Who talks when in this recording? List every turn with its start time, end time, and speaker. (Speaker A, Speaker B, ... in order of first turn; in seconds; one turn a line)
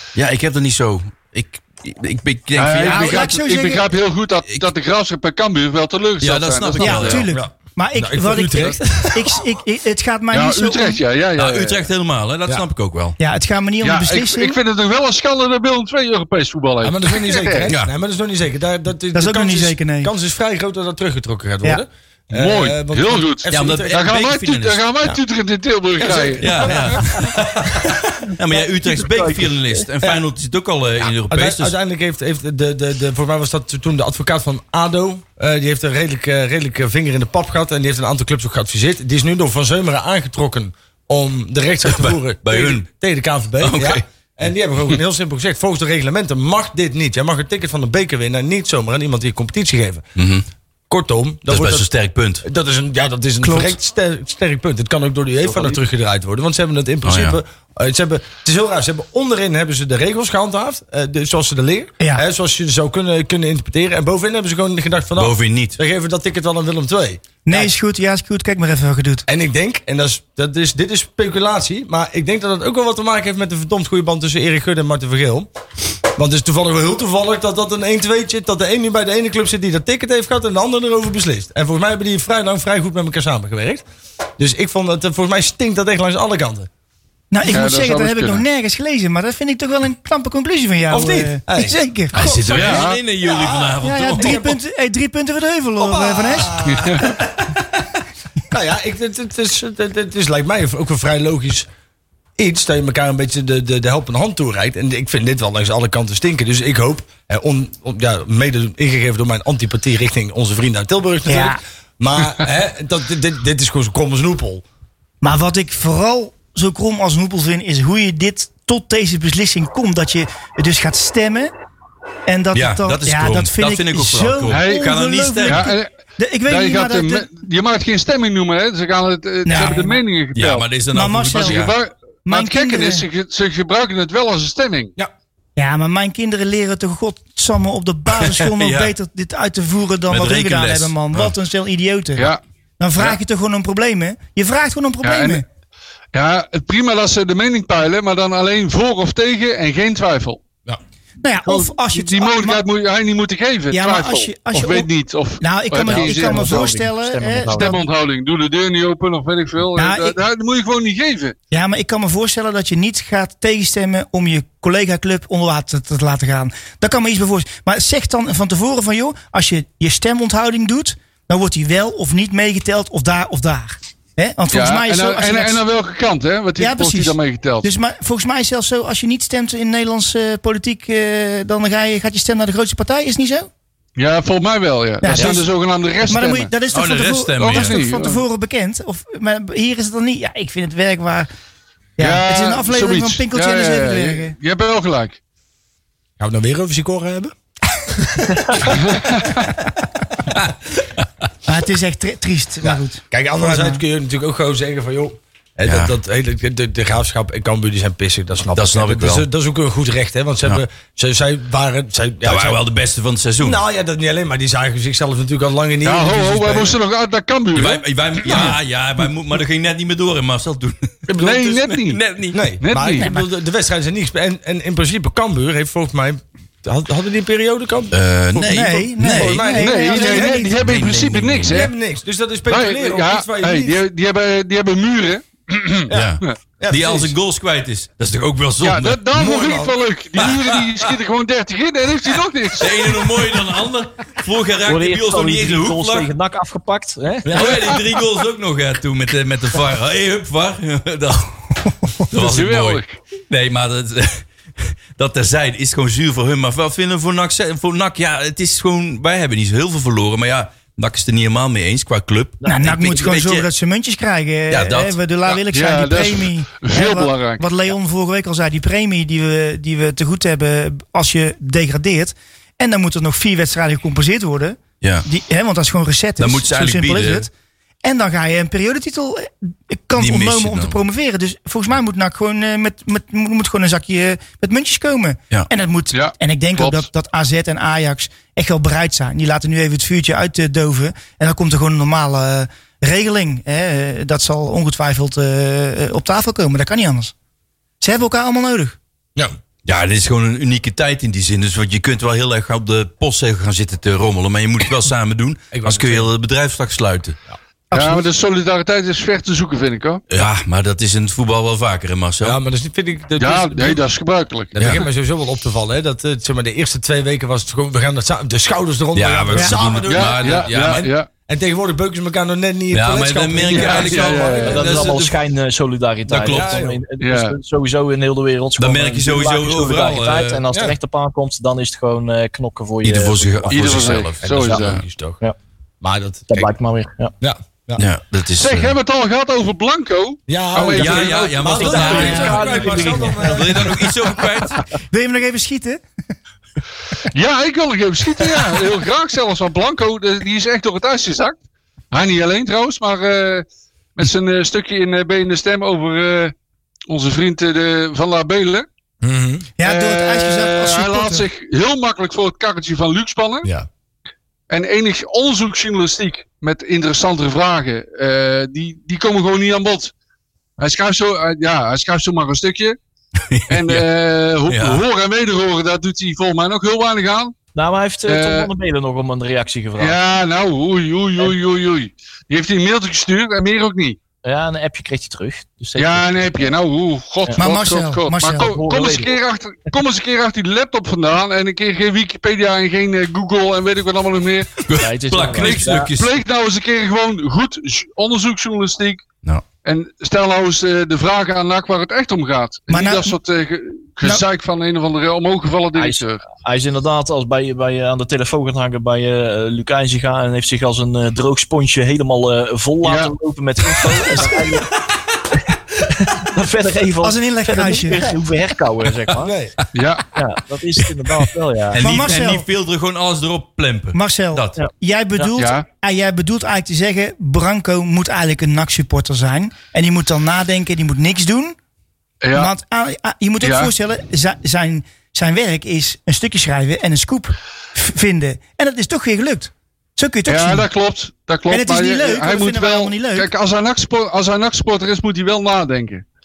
Speaker A: 0.1-3.2
Speaker B: 2.6-7.2
Speaker C: 2.8-3.9
Speaker A: 6.2-7.3
Speaker C: 6.8-11.0
Speaker D: 7.3-9.3
Speaker B: 10.3-11.8
Speaker A: 11.4-13.2
Speaker C: 13.2-14.6
Speaker B: 13.8-17.7
Speaker D: 16.8-24.1
Speaker C: 19.1-20.1
Speaker B: 22.3-27.0
Speaker A: 23.5-25.1
Speaker D: 26.0-28.2
Speaker A: 26.4-31.7
Speaker E: 28.5-29.8
Speaker D: 31.0-50.0
Speaker A: 41.9-42.9
Speaker A: 43.6-44.0
Speaker A: 50.2-50.5
Speaker D: 50.9-51.9
Speaker A: 51.5-52.5
Speaker D: 52.4-67.7
Speaker C: 53.4-53.8
Speaker E: 55.5-55.8
Speaker A: 57.0-57.4
Speaker A: 65.2-65.8
Speaker C: 67.5-69.2
Speaker D: 69.3-75.5
Speaker D: 76.2-83.8
Speaker D: 84.4-86.7
Speaker C: 87.3-92.7
Speaker B: 87.5-88.5
Speaker D: 90.9-94.6
Speaker A: 92.1-94.4
Speaker B: 92.5-93.0
Speaker C: 93.8-96.5
Speaker D: 95.8-97.6
Speaker B: 96.7-97.1
Speaker D: 98.5-101.7
Speaker D: 102.4-114.6
Speaker C: 111.3-111.6
Speaker C: 115.2-121.5
Speaker C: 122.3-127.3
Speaker A: 122.5-125.7
Speaker B: 124.5-124.9
Speaker B: 125.4-125.9
Speaker B: 126.5-130.7
Speaker C: 129.4-130.0
Speaker A: 130.3-131.8
Speaker C: 130.9-131.7
Speaker B: 131.3-134.9
Speaker C: 132.2-133.1
Speaker C: 135.6-145.4
Speaker A: 138.2-138.9
Speaker A: 140.1-141.3
Speaker B: 145.0-145.4
Speaker B: 146.1-150.4
Speaker C: 151.2-152.7
Speaker B: 151.5-156.8
Speaker C: 153.7-157.8
Speaker E: 155.8-157.8
Speaker B: 157.5-161.3
Speaker C: 159.8-160.2
Speaker C: 161.5-175.6
Speaker B: 174.5-177.7
Speaker C: 176.6-183.5
Speaker B: 184.0-186.5
Speaker C: 185.0-185.5
Speaker C: 186.1-191.3
Speaker A: 186.7-187.8
Speaker B: 187.4-188.2
Speaker C: 192.0-194.4
Speaker B: 192.0-195.2
Speaker D: 196.2-197.3
Speaker B: 198.9-199.4
Speaker C: 201.5-203.8
Speaker D: 202.6-212.6
Speaker A: 205.7-205.9
Speaker A: 208.5-209.3
Speaker A: 212.2-213.6
Speaker D: 213.4-216.8
Speaker B: 215.8-217.8
Speaker A: 217.6-220.9
Speaker D: 221.1-221.8
Speaker B: 221.2-222.0
Speaker A: 221.8-222.4
Speaker D: 222.3-230.3
Speaker B: 222.6-223.1
Speaker C: 223.0-223.3
Speaker A: 227.9-229.5
Speaker C: 228.5-230.6
Speaker B: 229.5-231.7
Speaker A: 230.4-231.7
Speaker D: 231.4-233.8
Speaker B: 232.5-236.4
Speaker D: 235.9-237.1
Speaker A: 235.9-239.0
Speaker B: 238.6-243.0
Speaker D: 239.1-239.8
Speaker A: 240.2-240.9
Speaker A: 242.6-246.1
Speaker E: 244.7-247.6
Speaker D: 247.2-247.7
Speaker A: 247.3-263.5
Speaker B: 252.1-253.0
Speaker C: 262.5-277.3
Speaker A: 264.5-265.0
Speaker B: 265.3-267.4
Speaker A: 274.8-275.1
Speaker A: 276.2-277.3
Speaker C: 277.8-297.1
Speaker A: 280.0-280.8
Speaker B: 285.9-286.9
Speaker C: 297.8-298.8
Speaker A: 299.6-307.2
Speaker D: 305.5-306.1
Speaker C: 307.7-308.1
Speaker B: 307.7-310.0
Speaker A: 310.1-312.4
Speaker D: 312.2-313.8
Speaker B: 313.2-314.7
Speaker D: 314.5-325.0
Speaker A: 314.6-314.8
Speaker A: 318.9-320.9
Speaker B: 319.9-321.1
Speaker A: 322.7-325.2
Speaker B: 323.5-324.8
Speaker E: 324.4-334.0
Speaker A: 326.1-326.6
Speaker D: 326.1-326.8
Speaker B: 327.0-327.4
Speaker A: 328.6-330.4
Speaker A: 332.8-334.8
Speaker B: 333.5-334.8
Speaker D: 334.2-335.2
Speaker D: 335.8-336.5
Speaker E: 336.3-337.1
Speaker D: 337.2-337.9
Speaker A: 337.8-338.7
Speaker B: 338.4-343.2
Speaker D: 340.3-343.9
Speaker A: 340.6-344.6
Speaker E: 341.6-343.3
Speaker C: 341.9-342.4
Speaker C: 344.9-345.8
Speaker B: 347.1-351.4
Speaker B: 351.9-356.3
Speaker B: 356.9-358.7
Speaker D: 359.0-359.5
Speaker C: 359.6-361.3
Speaker B: 359.6-363.5
Speaker B: 364.5-369.9
Speaker B: 370.6-372.8
Speaker A: 373.2-373.9
Speaker B: 373.5-377.3
Speaker A: 374.5-374.8
Speaker E: 377.5-380.0
Speaker B: 378.1-378.5
Speaker B: 379.8-384.0
Speaker E: 384.2-386.6
Speaker B: 385.8-394.6
Speaker C: 387.4-388.6
Speaker E: 388.4-389.2
Speaker A: 394.7-396.2
Speaker E: 394.8-395.9
Speaker B: 395.4-399.0
Speaker B: 399.6-406.2
Speaker C: 402.7-403.2
Speaker E: 405.8-414.8
Speaker B: 412.8-413.1
Speaker E: 415.8-419.3
Speaker C: 417.0-418.1
Speaker D: 419.2-419.6
Speaker B: 419.7-420.1
Speaker E: 420.1-421.8
Speaker A: 421.7-424.6
Speaker C: 421.8-422.4
Speaker C: 423.9-431.6
Speaker B: 425.2-425.7
Speaker B: 432.2-432.5
Speaker C: 432.3-440.7
Speaker B: 433.4-433.7
Speaker B: 440.3-446.0
Speaker C: 441.5-443.3